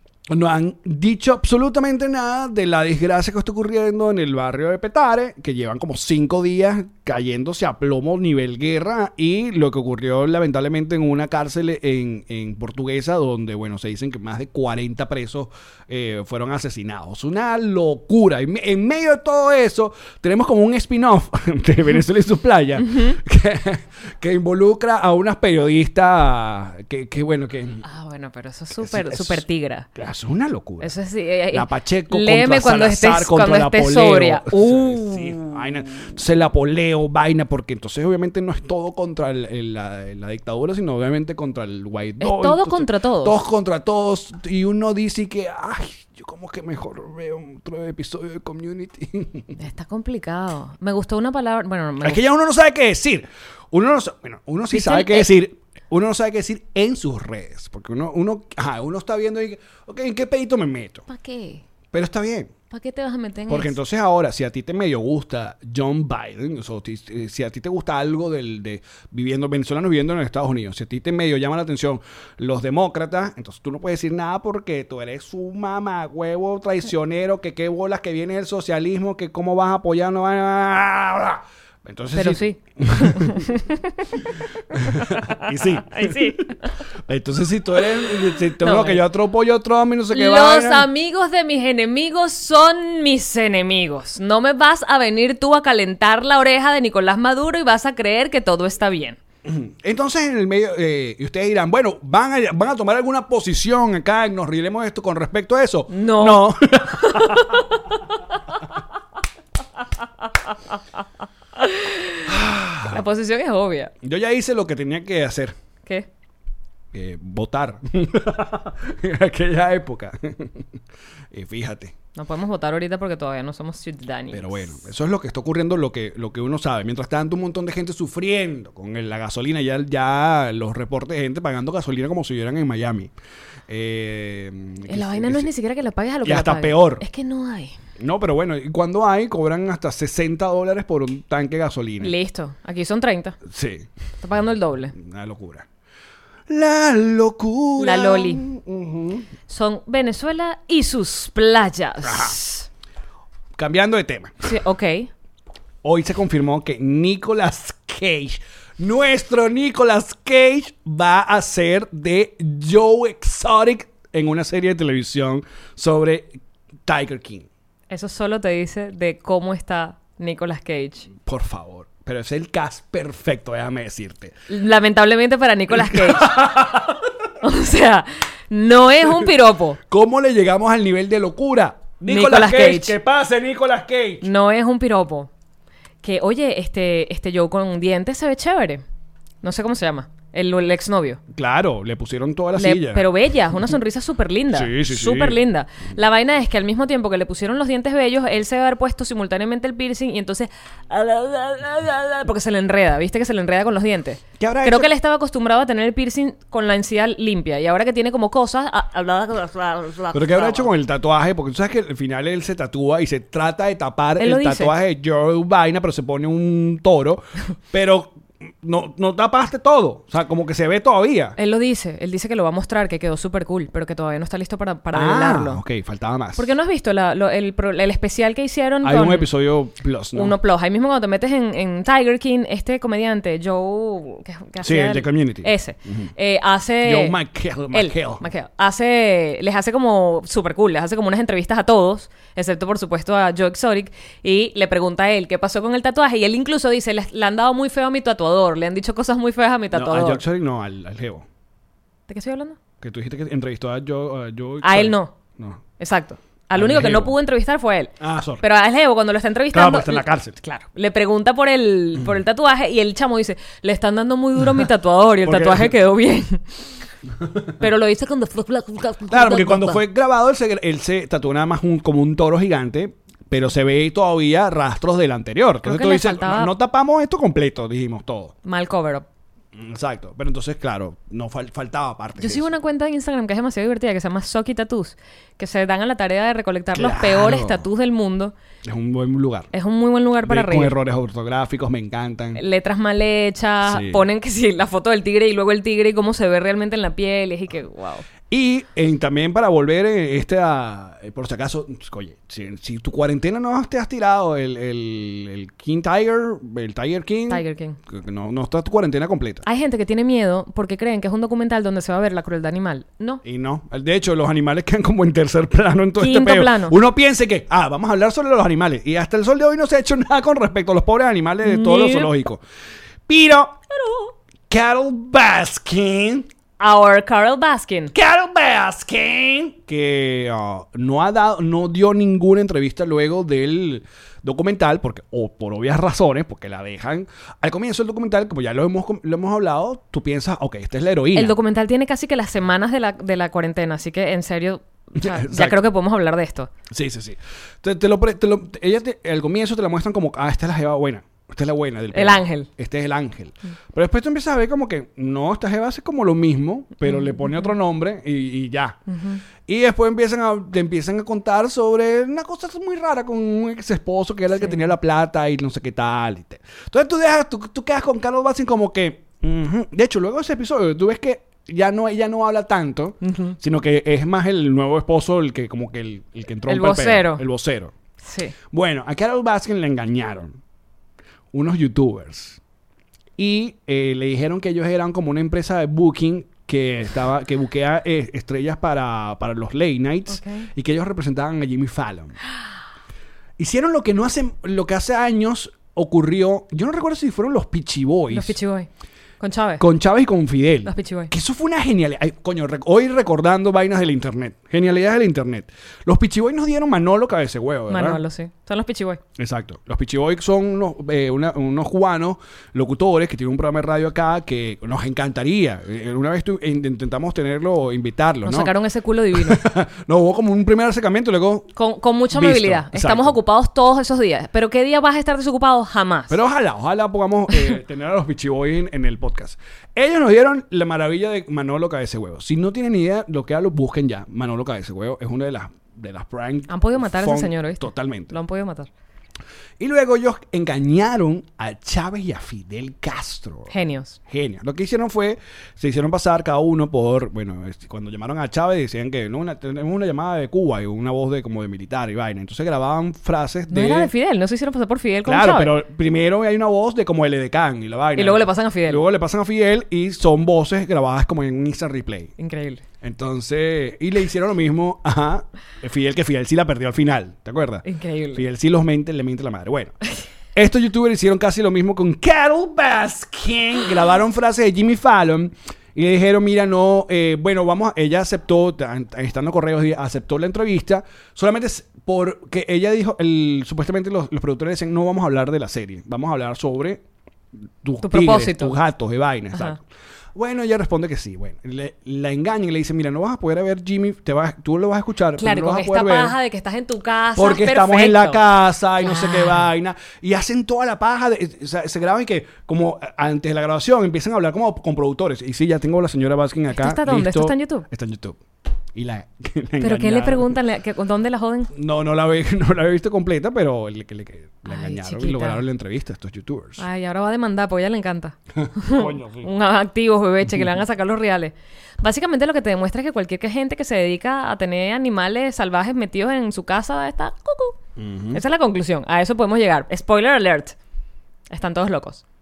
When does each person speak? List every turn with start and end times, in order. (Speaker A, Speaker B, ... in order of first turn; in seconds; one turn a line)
Speaker A: 0.3-27.8
Speaker B: 22.8-23.2
Speaker B: 27.8-29.9
Speaker A: 28.8-29.4
Speaker A: 29.9-30.9
Speaker B: 30.8-35.4
Speaker A: 31.5-49.5
Speaker B: 42.2-43.4
Speaker B: 49.5-52.2
Speaker A: 52.0-61.0
Speaker B: 54.7-55.3
Speaker B: 61.1-61.6
Speaker A: 61.9-62.5
Speaker B: 62.7-63.8
Speaker A: 63.5-83.5
Speaker B: 82.1-86.7
Speaker A: 84.7-90.9
Speaker B: 88.6-89.0
Speaker B: 90.1-99.2
Speaker A: 99.4-107.6
Speaker B: 105.9-107.9
Speaker B: 111.6-113.9
Speaker A: 112.2-113.0
Speaker A: 114.0-115.5
Speaker A: 116.9-120.7
Speaker A: 121.3-121.9
Speaker B: 122.1-124.8
Speaker A: 124.3-133.1
Speaker A: 133.7-135.5
Speaker B: 134.9-137.8
Speaker A: 136.2-137.0
Speaker A: 138.0-142.1
Speaker B: 142.0-143.4
Speaker A: 143.4-143.9
Speaker B: 144.2-144.9
Speaker A: 144.9-145.7
Speaker A: 146.5-149.3
Speaker B: 147.8-148.5
Speaker B: 149.5-152.7
Speaker A: 152.0-152.3
Speaker A: 153.6-154.5
Speaker B: 154.4-155.1
Speaker A: 155.8-167.5
Speaker B: 167.9-171.1
Speaker A: 171.2-174.3
Speaker B: 174.5-176.5
Speaker A: 175.7-177.1
Speaker B: 177.4-179.8
Speaker A: 179.1-179.3
Speaker A: 179.9-184.3
Speaker B: 182.0-182.9
Speaker B: 184.2-185.3
Speaker B: 186.0-188.8
Speaker B: 189.4-191.2
Speaker A: 191.3-193.1
Speaker B: 192.6-210.7
Speaker A: 194.5-195.4
Speaker A: 204.4-204.9
Speaker A: 210.1-221.3
Speaker B: 214.2-214.7
Speaker B: 221.4-225.6
Speaker A: 224.9-226.5
Speaker B: 226.3-229.3
Speaker A: 228.8-230.3
Speaker B: 230.1-237.2
Speaker A: 234.6-236.1
Speaker A: 236.8-238.2
Speaker B: 237.7-250.2
Speaker A: 249.7-251.2
Speaker B: 252.1-252.6
Speaker A: 252.8-255.6
Speaker B: 254.6-255.1
Speaker B: 255.8-266.6
Speaker A: 256.5-257.1
Speaker A: 258.0-258.4
Speaker A: 259.5-260.4
Speaker A: 265.2-265.7
Speaker B: 267.6-269.8
Speaker A: 269.1-278.3
Speaker B: 275.6-276.5
Speaker B: 278.4-279.1
Speaker A: 279.5-282.5
Speaker B: 282.2-288.3
Speaker A: 286.7-287.6
Speaker A: 288.6-289.5
Speaker B: 289.5-290.7
Speaker A: 290.2-292.4
Speaker B: 292.3-298.1
Speaker A: 293.6-294.0
Speaker A: 298.3-309.4
Speaker B: 307.3-307.8
Speaker B: 309.4-313.2
Speaker A: 313.2-322.4
Speaker B: 316.0-316.8
Speaker B: 321.4-322.1
Speaker A: 323.1-323.6
Speaker B: 323.7-324.1
Speaker A: 324.5-326.3
Speaker B: 326.6-327.9
Speaker A: 327.9-341.4
Speaker B: 341.1-346.5
Speaker A: 345.0-345.6
Speaker A: 346.7-358.8
Speaker B: 351.9-352.5
Speaker B: 356.8-357.5
Speaker B: 358.9-359.2
Speaker A: 359.4-377.7
Speaker B: 373.0-373.4
Speaker B: 376.5-377.2
Speaker B: 378.0-378.3
Speaker A: 378.5-380.4
Speaker A: 381.3-382.4
Speaker A: 383.2-392.1
Speaker B: 390.1-390.5
Speaker A: 393.4-398.4
Speaker B: 398.1-398.7
Speaker B: 399.2-399.6
Speaker A: 399.6-408.0
Speaker B: 400.6-401.1
Speaker B: 407.7-409.0
Speaker A: 409.2-418.5
Speaker B: 418.2-419.4
Speaker A: 419.1-421.5
Speaker B: 421.6-426.2
Speaker A: 422.1-423.2
Speaker A: 426.1-438.1
Speaker B: 436.5-438.7
Speaker A: 439.6-443.5
Speaker B: 443.5-444.0
Speaker A: 444.1-453.9
Speaker B: 453.5-455.6
Speaker A: 455.0-462.1
Speaker B: 457.9-458.8
Speaker B: 462.2-462.6
Speaker A: 462.8-469.8
Speaker B: 467.6-468.2
Speaker A: 470.3-486.8
Speaker A: 487.6-489.6
Speaker B: 487.8-488.5
Speaker A: 490.1-496.1
Speaker B: 495.2-498.2
Speaker A: 497.1-508.2
Speaker B: 498.8-499.5
Speaker B: 506.5-507.7
Speaker A: 508.7-510.4
Speaker B: 509.6-511.5
Speaker A: 511.5-516.6
Speaker B: 514.5-515.4
Speaker B: 516.6-527.6
Speaker A: 518.4-519.3
Speaker A: 527.8-528.2
Speaker B: 528.1-530.5
Speaker B: 531.3-532.0